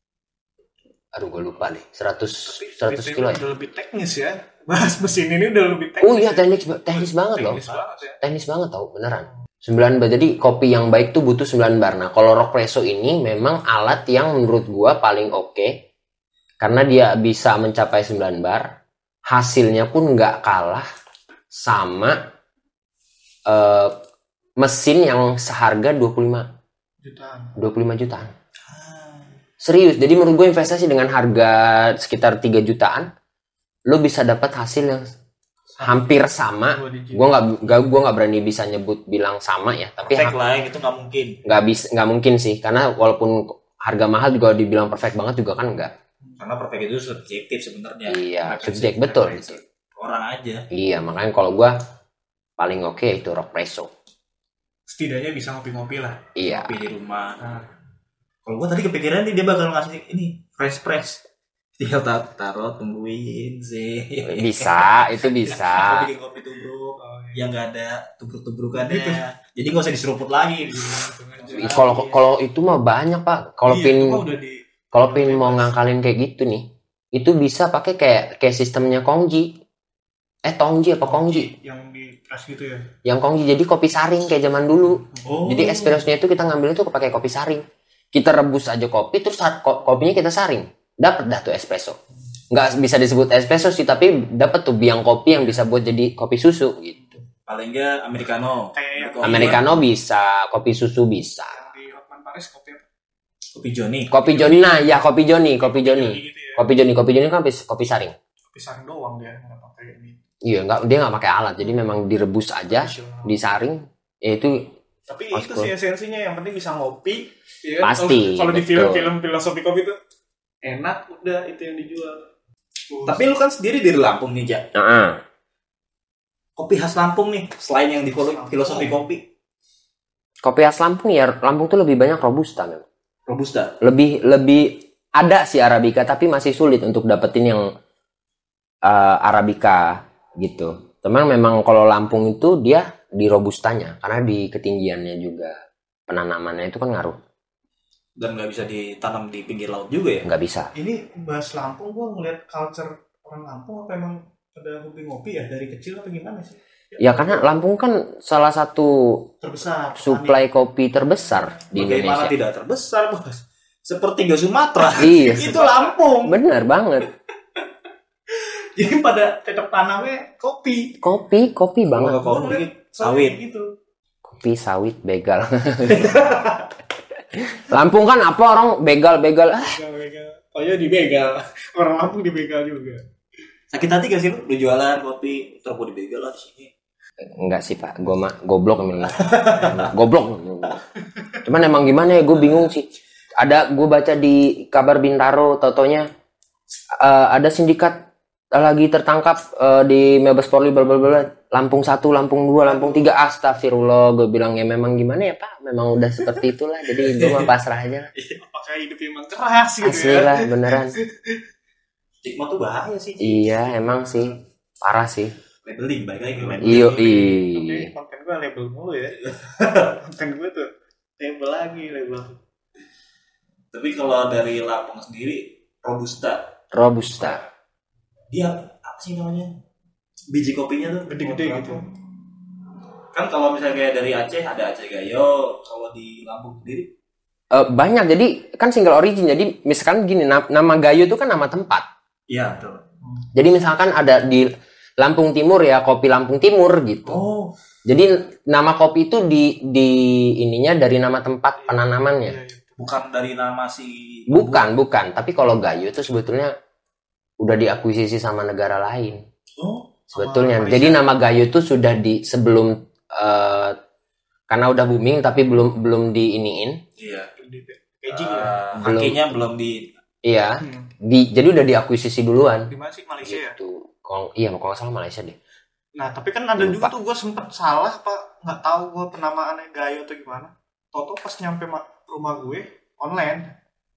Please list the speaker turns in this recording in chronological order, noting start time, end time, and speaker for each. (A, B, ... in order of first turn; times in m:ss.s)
0:01.1-0:03.4 A
0:02.4-0:08.2 B
0:06.0-0:07.6 A
0:08.2-0:15.8 A
0:16.6-0:18.7 A
0:19.3-0:20.9 A
0:21.5-0:22.2 A
0:23.5-0:24.0 A
0:24.6-0:26.5 A
0:27.0-0:27.6 B
0:27.6-0:28.3 A
0:28.7-0:29.3 C
0:29.6-0:33.1 A
0:33.9-0:35.1 A
0:35.8-0:37.4 B
0:35.8-0:40.4 A
0:40.0-0:41.4 C
0:41.4-0:45.9 A
0:46.4-0:50.6 C
0:48.1-0:49.6 A
0:50.7-0:51.7 A
0:52.6-0:53.9 A
0:54.9-0:56.2 B
0:56.4-0:56.7 A
0:56.4-0:57.4 C
0:58.4-1:01.2 C
1:01.8-1:11.8 C
1:04.2-1:06.1 A
1:07.0-1:07.4 B
1:08.8-1:09.2 B
1:10.6-1:12.2 B
1:11.6-1:14.2 A
1:13.6-1:15.7 B
1:14.9-1:19.6 A
1:20.4-1:21.5 A
1:21.0-1:22.9 B
1:23.0-1:32.0 A
1:25.2-1:26.0 C
1:32.5-1:37.1 A
1:37.5-1:39.6 C
1:38.7-1:39.6 B
1:39.2-1:41.6 A
1:41.5-1:42.8 B
1:43.5-1:44.1 C
1:44.1-1:48.1 A
1:44.2-1:45.0 B
1:45.6-1:46.6 B
1:48.5-1:50.2 B
1:50.4-1:54.7 A
1:52.7-1:53.4 B
1:55.1-2:00.0 B
1:55.3-1:55.7 A
1:57.8-1:59.1 A
2:00.6-2:02.2 B
2:02.9-2:03.2 B
2:03.0-2:04.7 C
2:04.7-2:05.2 A
2:06.6-2:09.2 C
2:08.2-2:09.0 B
2:10.4-2:12.8 A
2:13.3-2:13.8 C
2:13.8-2:17.7 A
2:18.8-2:25.5 A
2:26.1-2:27.2 A
2:28.2-2:30.3 C
2:30.2-2:30.7 A
2:30.7-2:37.5 B
2:37.0-2:39.3 A
2:39.4-2:40.4 B
2:40.0-2:42.3 A
2:41.7-2:46.4 C
2:45.0-2:45.6 A
2:45.1-2:46.0 B
2:46.2-2:47.1 A
2:48.8-2:51.0 B
2:51.0-2:52.2 A
2:51.9-2:53.4 C
2:52.2-2:53.7 B
2:54.2-2:56.3 A
2:55.9-2:56.6 C
2:57.3-2:59.8 A
2:59.6-3:03.0 B
3:03.7-3:06.7 C
3:07.2-3:10.8 A
3:09.2-3:09.9 C
3:11.4-3:16.1 A
3:17.0-3:28.1 A
3:22.6-3:23.1 B
3:27.0-3:27.5 C
3:28.4-3:31.4 B
3:29.8-3:30.9 A
3:32.2-3:33.7 C
3:33.2-3:35.4 A
3:35.6-3:37.2 C
3:36.4-3:42.4 B
3:36.6-3:37.9 A
3:39.2-3:40.0 C
3:43.7-3:46.5 C
3:46.7-3:47.4 A
3:48.3-3:49.5 C
3:50.3-3:51.9 C
3:51.1-3:51.8 B
3:53.1-3:56.9 C
3:57.5-4:01.8 A
4:02.3-4:02.8 C
4:03.3-4:07.2 A
4:07.0-4:07.5 C
4:07.8-4:12.4 A
4:11.6-4:12.8 B
4:12.8-4:14.7 C
4:14.3-4:16.5 A
4:17.4-4:19.2 A
4:19.6-4:19.9 C
4:20.1-4:21.0 B
4:20.1-4:23.8 A
4:24.5-4:26.8 A
4:27.0-4:27.3 C
4:27.4-4:28.6 B
4:28.1-4:29.9 C
4:28.8-4:29.4 A
4:30.2-4:32.7 A
4:30.6-4:30.9 B
4:32.7-4:33.6 B
4:33.2-4:35.4 A
4:36.0-4:43.5 B
4:36.6-4:36.9 A